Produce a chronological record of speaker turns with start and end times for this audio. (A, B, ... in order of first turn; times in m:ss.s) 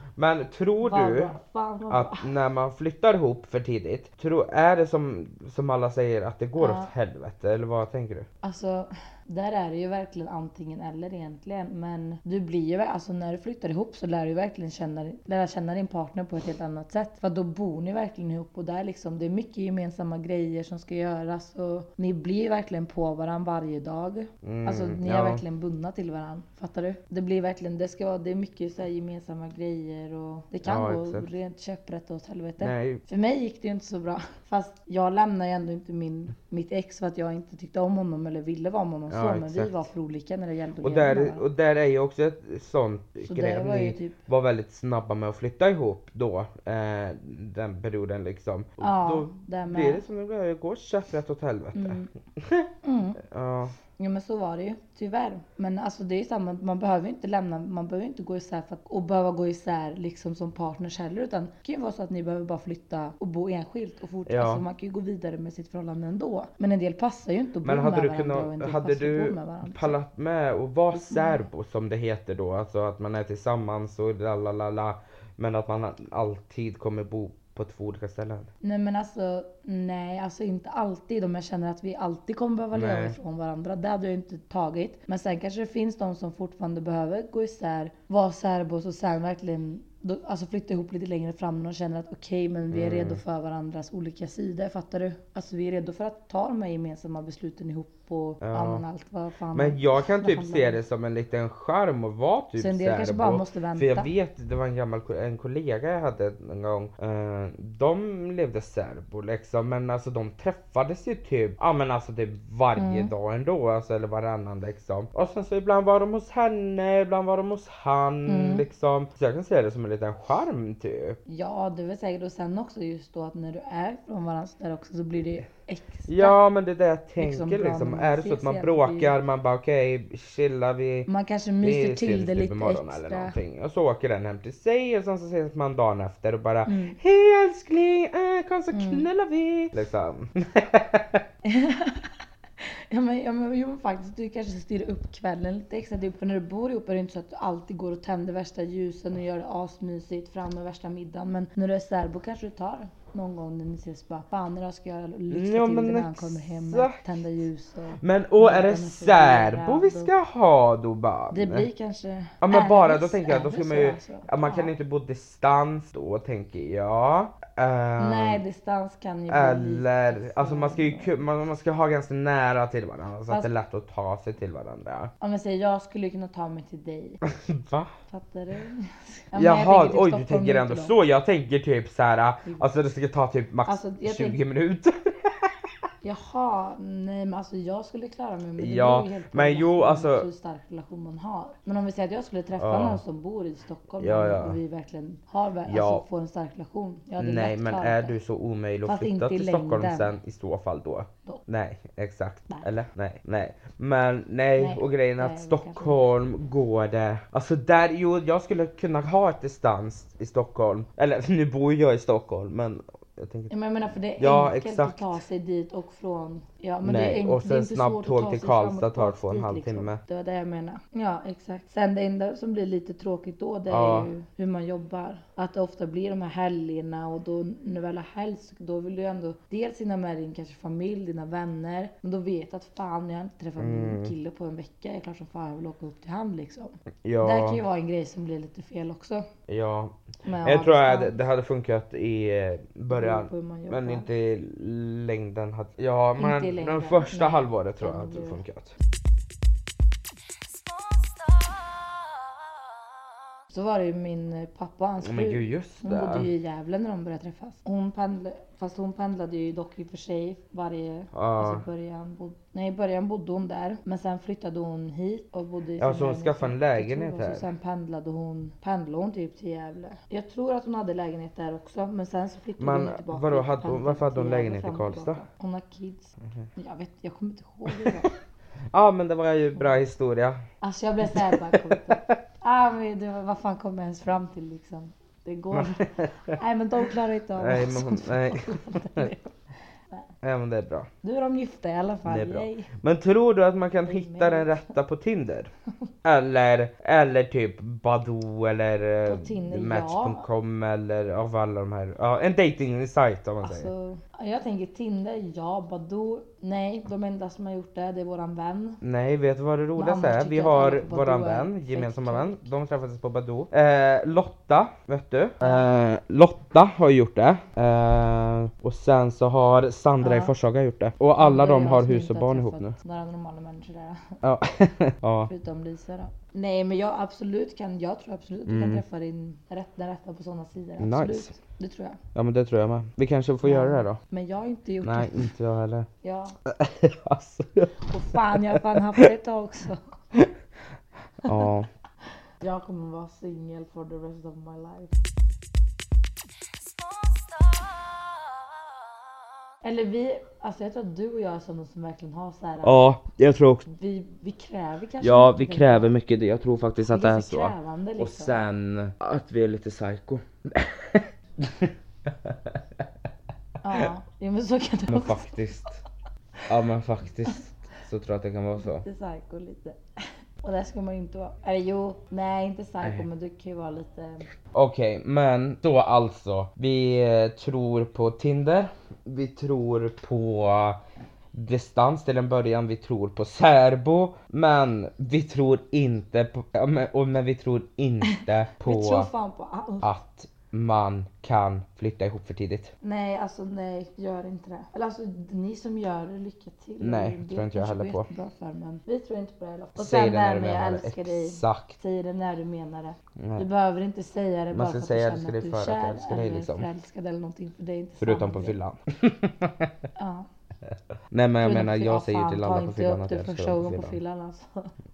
0:00.2-0:01.3 A
0:00.8-0:02.3 B
0:01.9-0:08.3 A
0:06.6-0:06.9 B
0:08.4-0:41.4 B
0:24.4-0:25.4 A
0:30.6-0:31.3 A
0:32.6-0:33.0 A
0:39.1-0:39.8 A
0:40.8-0:53.7 A
0:43.2-0:44.2 B
0:48.8-0:50.0 B
0:51.7-0:52.1 B
0:52.8-0:53.2 B
0:54.0-1:10.0 B
1:04.3-1:04.6 A
1:07.6-1:18.5 A
1:10.9-1:11.4 B
1:18.6-1:40.8 B
1:22.7-1:23.2 A
1:32.7-1:33.2 A
1:38.4-1:38.8 A
1:39.5-2:01.2 A
1:42.6-1:44.1 B
1:52.8-1:53.1 B
1:58.2-1:58.6 B
2:01.3-2:06.4 B
2:06.1-2:11.1 A
2:07.2-2:09.1 B
2:11.1-2:13.4 B
2:11.6-2:21.2 A
2:16.6-2:17.0 B
2:18.7-2:19.0 B
2:21.4-2:40.1 B
2:35.3-2:37.0 A
2:38.0-2:41.7 A
2:41.3-2:44.7 B
2:42.4-2:48.4 A
2:48.0-2:51.2 B
2:49.3-2:55.1 A
2:55.2-2:57.2 B
2:57.2-2:57.9 A
2:58.1-3:01.0 B
2:59.3-3:05.7 A
3:03.6-3:04.4 B
3:06.0-3:18.2 B
3:08.6-3:10.3 A
3:12.6-3:13.0 A
3:14.0-3:14.6 A
3:15.7-3:16.0 A
3:17.2-3:33.5 A
3:18.8-3:20.1 B
3:24.6-3:26.0 B
3:33.5-3:59.2 B
3:34.2-3:35.2 A
3:36.8-3:40.0 A
3:43.7-3:44.1 A
3:53.6-3:54.1 A
3:57.0-3:57.6 A
3:59.5-4:08.8 A
4:00.2-4:01.1 B
4:02.9-4:04.1 B
4:06.2-4:08.4 B
4:13.5-4:38.1 B
4:15.0-4:16.3 A
4:21.1-4:21.6 A
4:25.8-4:27.4 A
4:32.6-4:35.2 A
4:37.7-4:38.1 A
4:38.7-4:40.4 A
4:40.6-4:49.3 B
4:41.0-4:42.2 A
4:45.5-4:46.4 A
4:47.4-4:49.1 A
4:50.2-4:50.9 A
4:51.0-4:52.7 B
4:52.0-4:55.5 A
4:53.9-4:54.7 B
4:56.0-5:03.7 A
4:59.0-5:00.2 B
5:03.4-5:08.8 B
5:08.8-5:22.7 A
5:09.8-5:12.5 B
5:20.0-5:20.3 B
5:21.2-5:24.2 B
5:24.2-5:25.3 A
5:25.2-5:32.0 B
5:28.5-5:28.8 A
5:30.8-5:31.3 A
5:32.1-5:34.0 A
5:33.4-5:35.3 B
5:34.8-5:35.9 A
5:36.0-5:36.4 B
5:36.4-5:39.1 A
5:37.9-5:39.8 B
5:41.2-5:41.7 A
5:42.4-5:44.9 B
5:49.6-5:52.9 B
5:52.6-5:53.6 A
5:53.6-5:55.9 B
5:55.0-6:02.9 A
5:56.9-5:58.4 B
6:03.6-6:05.4 B
6:04.9-6:05.8 A
6:06.5-6:08.8 A
6:08.6-6:09.8 B
6:10.4-6:14.3 B
6:14.5-6:20.8 A
6:21.3-6:29.1 A
6:28.0-6:29.9 B
6:29.8-6:32.7 A
6:32.8-6:48.6 B
6:36.8-6:38.1 A
6:39.8-6:41.8 A
6:43.2-6:43.4 A
6:44.5-6:46.6 A
6:48.0-6:49.7 A
6:50.0-6:50.3 B
6:50.6-6:54.0 A
6:51.4-6:54.7 B